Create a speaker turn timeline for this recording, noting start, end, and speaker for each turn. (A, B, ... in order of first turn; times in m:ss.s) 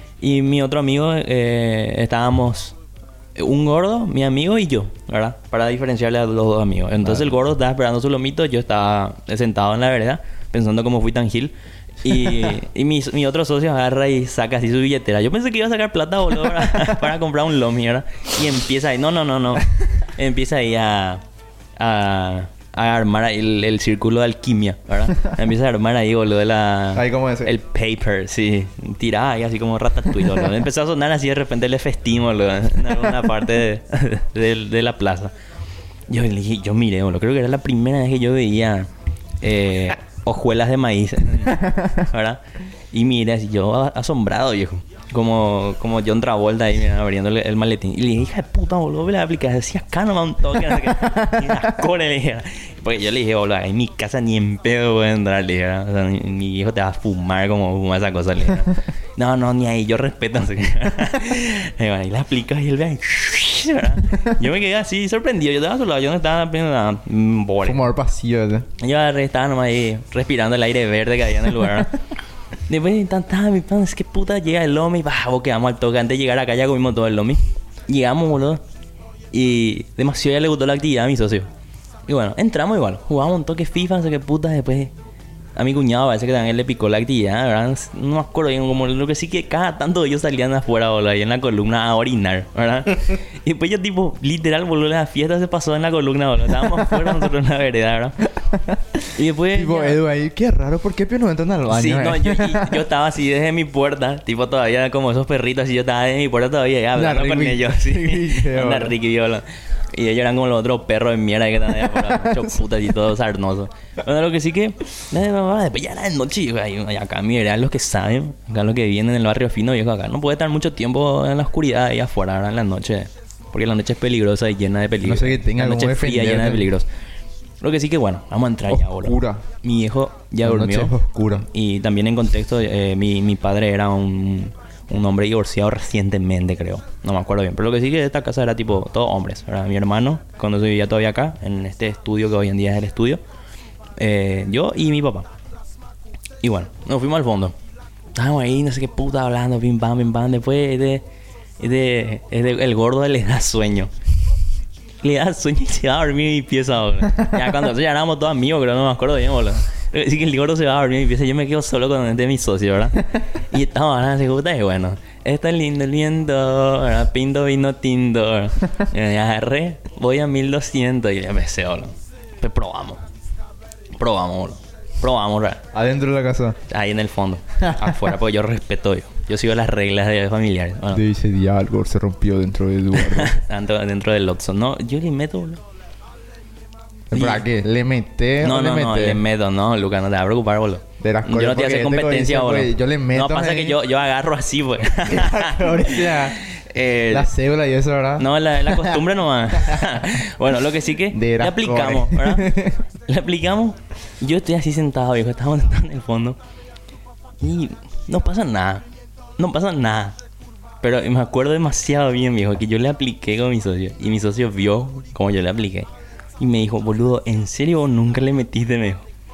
0:00.2-0:02.8 A
0:03.4-0:21.2 A
0:07.0-0:07.4 B
0:12.1-0:12.5 B
0:21.8-0:35.3 A
0:27.0-0:27.5 B
0:36.1-0:38.9 A
0:39.4-1:07.8 A
0:41.5-0:42.0 B
0:51.2-0:51.5 B
1:07.6-1:08.7 B
1:08.8-1:11.9 A
1:12.7-1:18.6 A
1:19.3-1:21.5 A
1:22.1-1:24.9 A
1:25.6-1:38.2 A
1:36.6-1:37.2 B
1:38.2-1:42.8 B
1:39.2-1:40.0 A
1:41.7-2:06.9 A
1:46.9-1:49.0 B
1:51.8-1:52.6 B
2:05.0-2:06.7 B
2:07.6-2:23.2 A
2:08.7-2:09.4 B
2:10.4-2:11.5 B
2:24.0-2:25.3 A
2:26.4-2:27.5 A
2:28.2-2:31.0 A
2:31.6-2:33.9 A
2:35.0-2:53.0 A
2:53.9-2:55.6 A
2:55.7-2:56.6 B
2:56.7-3:01.0 A
2:57.6-2:58.0 B
3:00.9-3:03.3 B
3:03.0-3:05.6 A
3:07.1-3:09.2 B
3:07.1-3:07.4 A
3:08.4-3:17.3 A
3:11.0-3:13.8 B
3:15.0-3:16.4 B
3:17.1-3:20.1 B
3:18.2-3:22.5 A
3:21.1-3:22.8 B
3:23.1-3:26.4 A
3:27.4-3:28.8 A
3:29.4-3:30.2 A
3:30.8-3:35.9 A
3:36.4-3:39.0 A